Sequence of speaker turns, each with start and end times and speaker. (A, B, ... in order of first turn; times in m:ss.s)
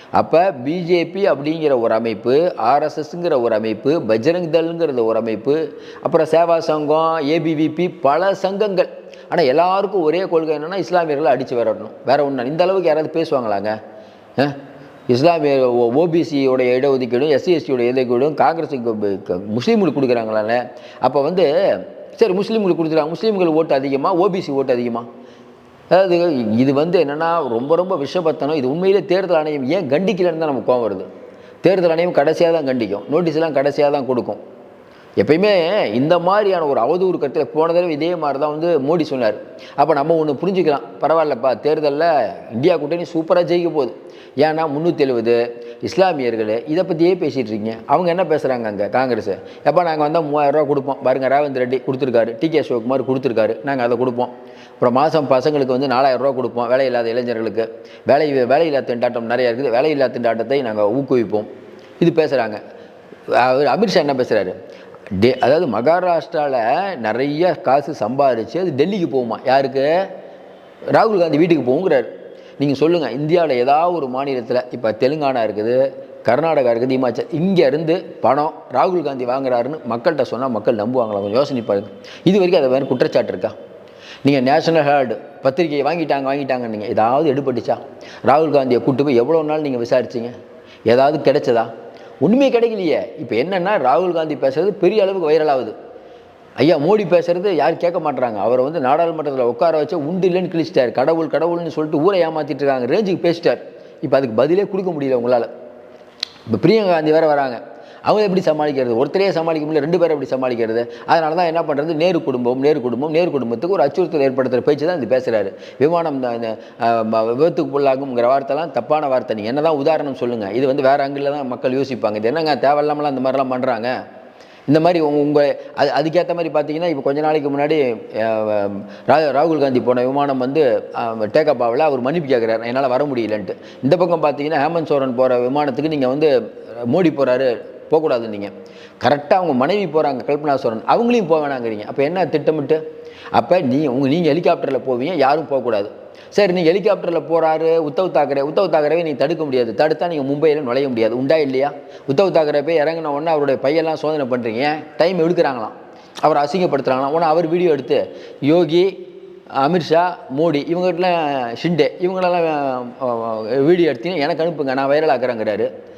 0:00.2-0:13.8 A
0:15.1-0:25.1 A
0:25.9-0:31.1 A
0:31.6-0:34.4 A
0:35.2-1:01.5 A
1:02.0-1:02.6 A
1:03.4-1:04.6 A
1:05.2-1:10.0 A
1:11.0-1:12.1 A
1:12.6-1:23.5 A
1:24.2-1:30.3 A
1:30.9-1:31.7 A
1:32.2-1:35.7 A
1:36.6-1:45.5 A
1:46.5-2:03.9 A
2:04.7-2:16.3 A
2:16.9-2:22.8 A
2:23.4-2:38.9 A
2:39.6-2:45.7 A